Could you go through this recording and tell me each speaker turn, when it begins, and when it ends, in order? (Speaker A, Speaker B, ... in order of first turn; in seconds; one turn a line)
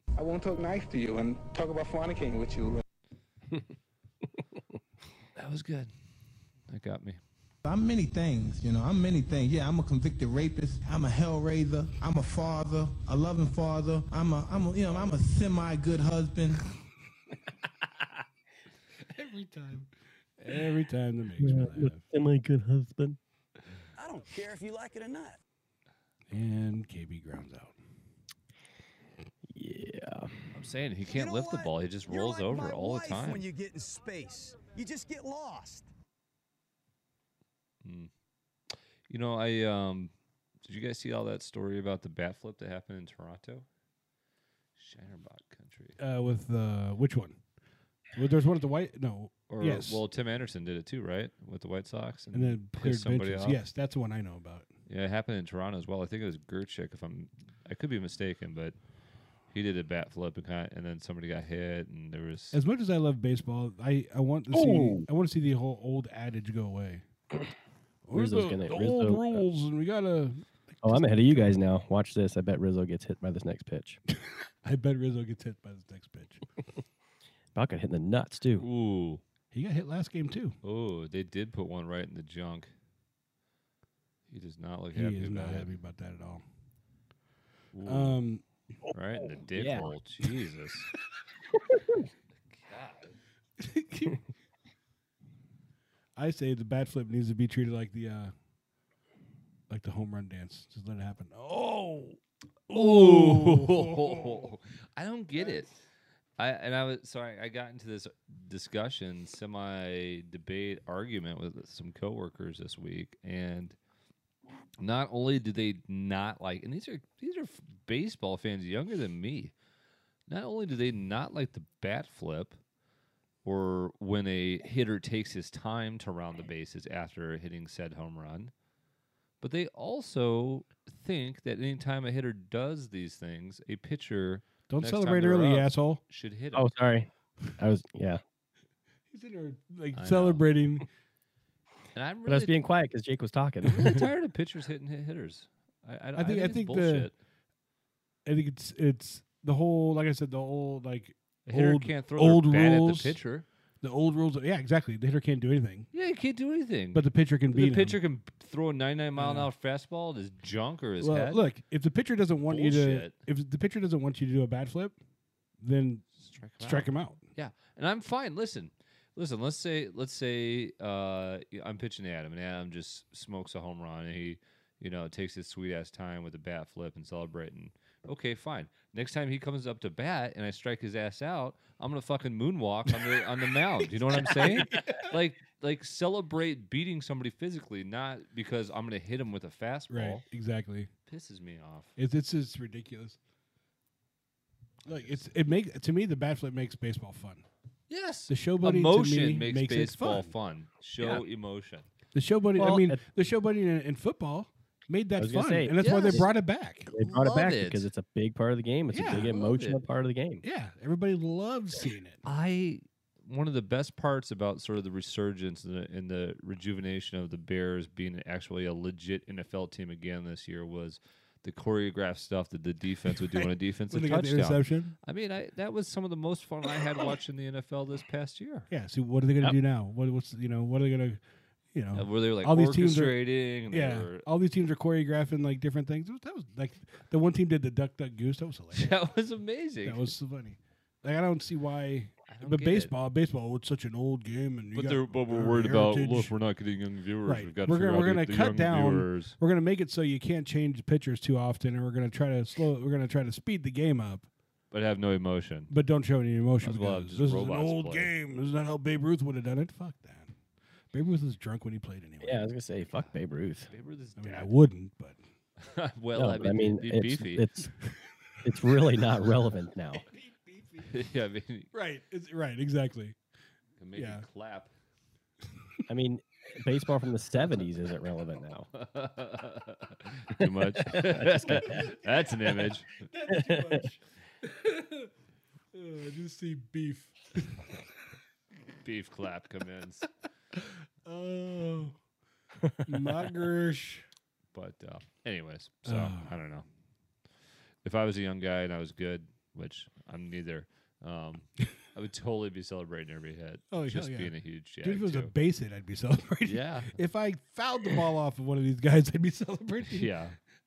Speaker A: 0.2-2.8
Speaker B: 5.3-5.9
Speaker B: 6.7-7.2
Speaker C: 7.6-16.6
Speaker D: 19.1-22.0
Speaker E: 21.4-23.2
Speaker F: 23.9-25.4
Speaker D: 26.3-27.8
Speaker E: 29.5-30.3
Speaker B: 30.5-33.4
Speaker F: 31.1-35.9
Speaker B: 37.8-38.1
Speaker B: 39.1-40.1
Speaker B: 40.6-43.6
Speaker B: 44.8-46.0
Speaker D: 46.0-47.4
Speaker D: 48.1-50.0
Speaker B: 49.5-53.6
Speaker D: 52.3-54.7
Speaker B: 54.9-58.8
Speaker B: 59.5-62.6
Speaker D: 62.5-67.0
Speaker E: 64.5-65.0
Speaker D: 68.0-71.6
Speaker E: 68.1-69.4
Speaker E: 70.8-74.0
Speaker D: 74.2-76.4
Speaker E: 77.5-78.6
Speaker B: 78.6-79.2
Speaker D: 79.5-80.6
Speaker B: 80.6-82.7
Speaker B: 84.3-85.7
Speaker D: 84.9-86.4
Speaker B: 87.7-88.2
Speaker D: 87.8-88.4
Speaker B: 88.9-90.9
Speaker E: 89.5-89.9
Speaker B: 92.5-93.2
Speaker D: 93.6-94.2
Speaker D: 96.2-98.3
Speaker D: 99.7-104.5
Speaker B: 102.7-105.7
Speaker B: 106.4-113.8
Speaker B: 114.8-119.5
Speaker B: 120.3-122.6
Speaker B: 123.4-128.5
Speaker B: 129.4-136.7
Speaker D: 134.7-136.0
Speaker E: 136.5-138.2
Speaker D: 139.1-140.9
Speaker B: 139.9-140.4
Speaker B: 141.9-142.6
Speaker E: 142.3-144.0
Speaker B: 143.7-147.1
Speaker D: 146.1-147.1
Speaker D: 148.2-153.2
Speaker B: 151.5-153.4
Speaker D: 153.8-155.9
Speaker B: 155.9-161.4
Speaker D: 156.9-158.0
Speaker D: 159.2-159.5
Speaker D: 161.0-164.9
Speaker B: 162.5-163.2
Speaker D: 165.6-166.1
Speaker B: 166.2-190.2
Speaker D: 166.6-167.2
Speaker D: 184.1-184.8
Speaker D: 189.9-190.9
Speaker B: 191.1-191.9
Speaker D: 192.0-193.2
Speaker D: 194.8-197.5
Speaker B: 197.9-201.8
Speaker D: 198.3-200.3
Speaker D: 202.1-206.9
Speaker E: 202.6-203.0
Speaker E: 205.2-206.3
Speaker B: 205.8-206.3
Speaker E: 206.9-210.4
Speaker B: 206.9-207.9
Speaker D: 208.9-209.4
Speaker B: 209.1-209.8
Speaker D: 210.4-212.2
Speaker B: 212.2-228.7
Speaker D: 223.9-224.9
Speaker D: 228.7-231.2
Speaker D: 231.7-238.9
Speaker B: 231.9-234.2
Speaker B: 238.7-240.1
Speaker D: 239.8-246.3
Speaker B: 242.3-242.9
Speaker B: 244.7-249.3
Speaker D: 247.2-254.3
Speaker B: 254.7-255.7
Speaker D: 255.7-260.3
Speaker B: 256.6-258.1
Speaker D: 260.9-262.5
Speaker E: 262.2-263.7
Speaker B: 263.7-264.5
Speaker D: 264.1-265.2
Speaker B: 265.6-267.5
Speaker E: 266.1-267.7
Speaker E: 268.4-270.0
Speaker D: 270.1-270.9
Speaker B: 270.9-271.7
Speaker D: 271.7-273.2
Speaker B: 273.8-274.7
Speaker D: 273.9-274.2
Speaker E: 275.9-278.7
Speaker B: 278.7-283.0
Speaker D: 281.0-285.1
Speaker E: 283.3-283.8
Speaker D: 285.7-287.7
Speaker B: 288.8-290.1
Speaker D: 290.6-291.9
Speaker D: 292.8-294.1
Speaker B: 294.5-296.6
Speaker D: 295.8-296.4
Speaker B: 297.8-305.3
Speaker D: 303.7-310.1
Speaker B: 306.4-307.0
Speaker B: 309.9-310.4